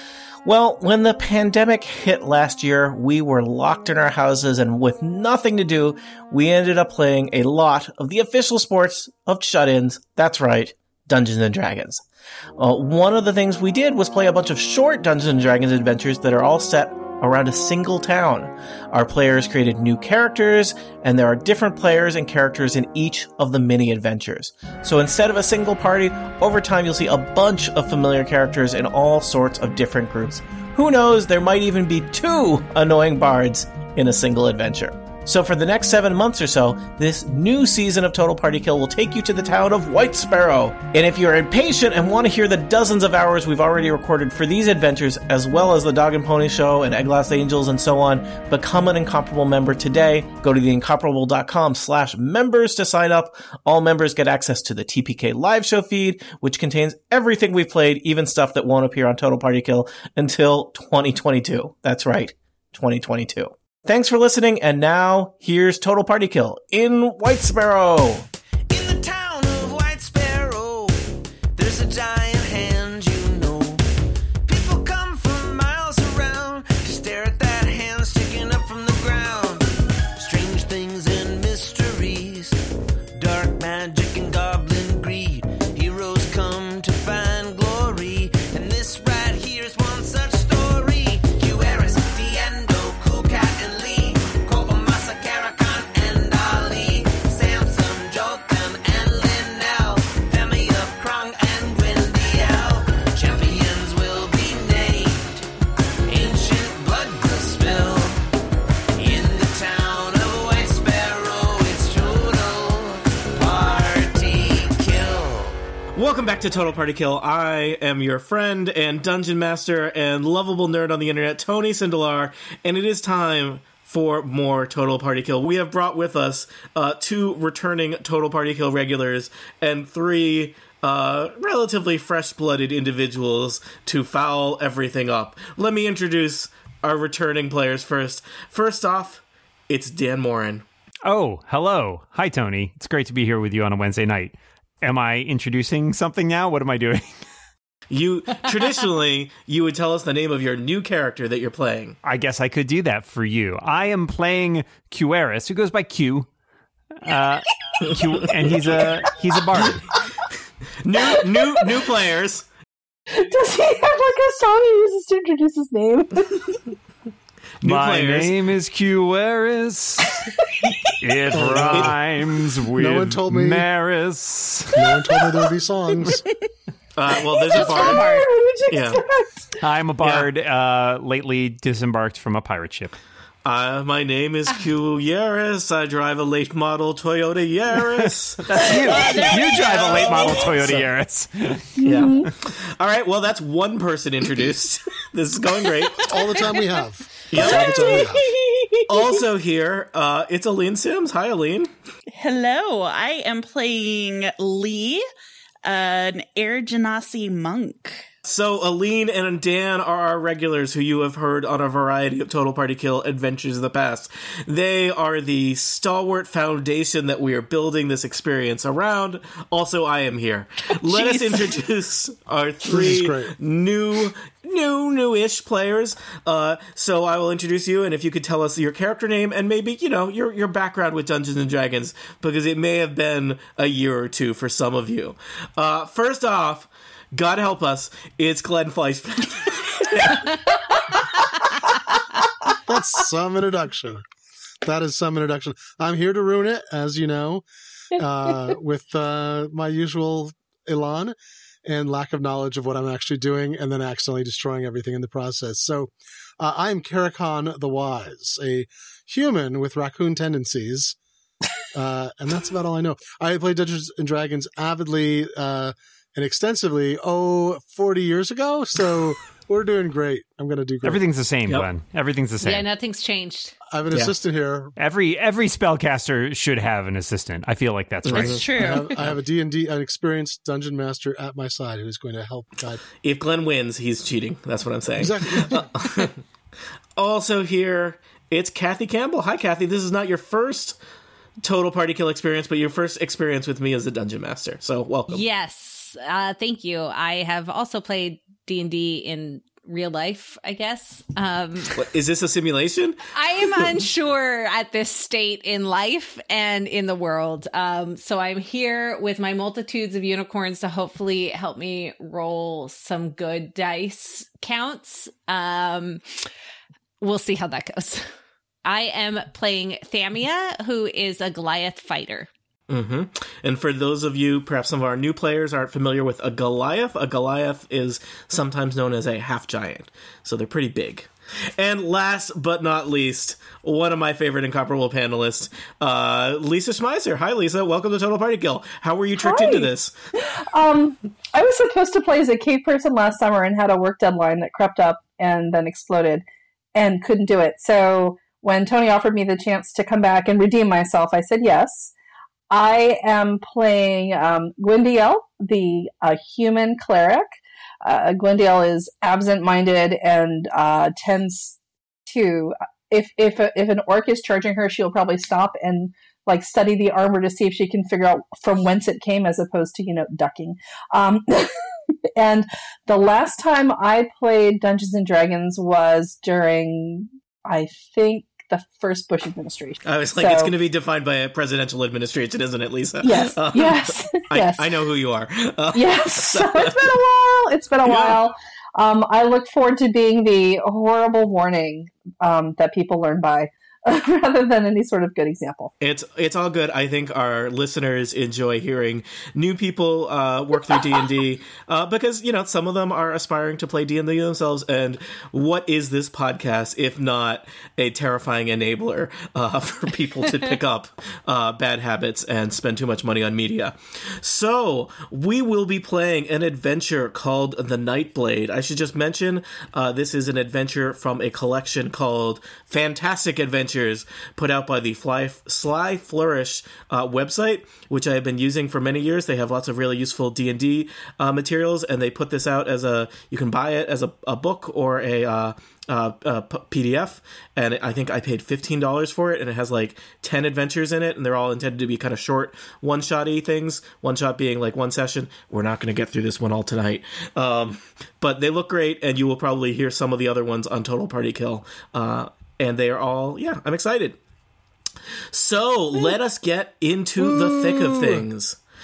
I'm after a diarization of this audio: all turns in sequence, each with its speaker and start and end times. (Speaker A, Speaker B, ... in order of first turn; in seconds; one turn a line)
Speaker A: 0.5-12.0
Speaker A: 12.6-68.3
Speaker B: 68.7-73.8
Speaker B: 74.5-82.6
Speaker B: 83.2-105.5
Speaker B: 106.1-108.2
Speaker B: 109.0-115.6
Speaker A: 116.0-140.7
Speaker C: 141.1-147.2
Speaker A: 147.9-152.0
Speaker C: 152.0-156.3
Speaker C: 157.0-159.9
Speaker A: 160.8-162.5
Speaker D: 163.1-166.7
Speaker C: 167.6-170.3
Speaker A: 167.6-168.4
Speaker C: 171.0-174.9
Speaker E: 171.3-172.0
Speaker A: 171.7-171.9
Speaker E: 172.8-173.7
Speaker E: 174.7-176.2
Speaker A: 177.0-178.1
Speaker D: 177.3-179.6
Speaker F: 177.4-178.3
Speaker A: 178.7-179.0
Speaker C: 179.6-182.9
Speaker A: 180.0-180.3
Speaker A: 183.4-188.5
Speaker C: 188.0-192.2
Speaker F: 188.8-190.6
Speaker A: 190.4-190.9
Speaker D: 191.8-192.3
Speaker A: 191.8-196.1
Speaker E: 196.1-198.2
Speaker A: 197.3-198.0
Speaker D: 197.4-198.0
Speaker A: 198.9-201.7
Speaker F: 202.1-205.1
Speaker F: 205.6-208.0
Speaker A: 208.2-240.3
Speaker F: 220.8-221.6
Speaker E: 222.7-223.3
Speaker E: 242.6-244.0
Speaker E: 244.6-261.0
Speaker E: 261.7-271.0
Speaker C: 270.8-272.7
Speaker G: 272.4-273.6
Speaker E: 273.7-274.8
Speaker C: 274.8-278.7
Speaker A: 278.0-278.4
Speaker F: 278.1-278.9
Speaker E: 278.2-282.8
Speaker A: 283.0-286.2
Speaker E: 285.0-286.1
Speaker A: 287.0-290.8
Speaker A: 291.4-295.2
Speaker G: 295.1-301.8
Speaker A: 301.8-303.1
Speaker G: 303.1-316.0
Speaker G: 317.0-318.1
Speaker G: 318.6-322.3
Speaker A: 322.7-339.9
Speaker D: 339.2-351.9
Speaker D: 352.5-371.5
Speaker D: 372.2-380.5
Speaker A: 379.9-386.9
Speaker D: 383.0-384.6
Speaker D: 385.7-395.7
Speaker A: 387.9-388.2
Speaker A: 395.8-454.2
Speaker A: 455.3-458.6
Speaker C: 457.2-458.2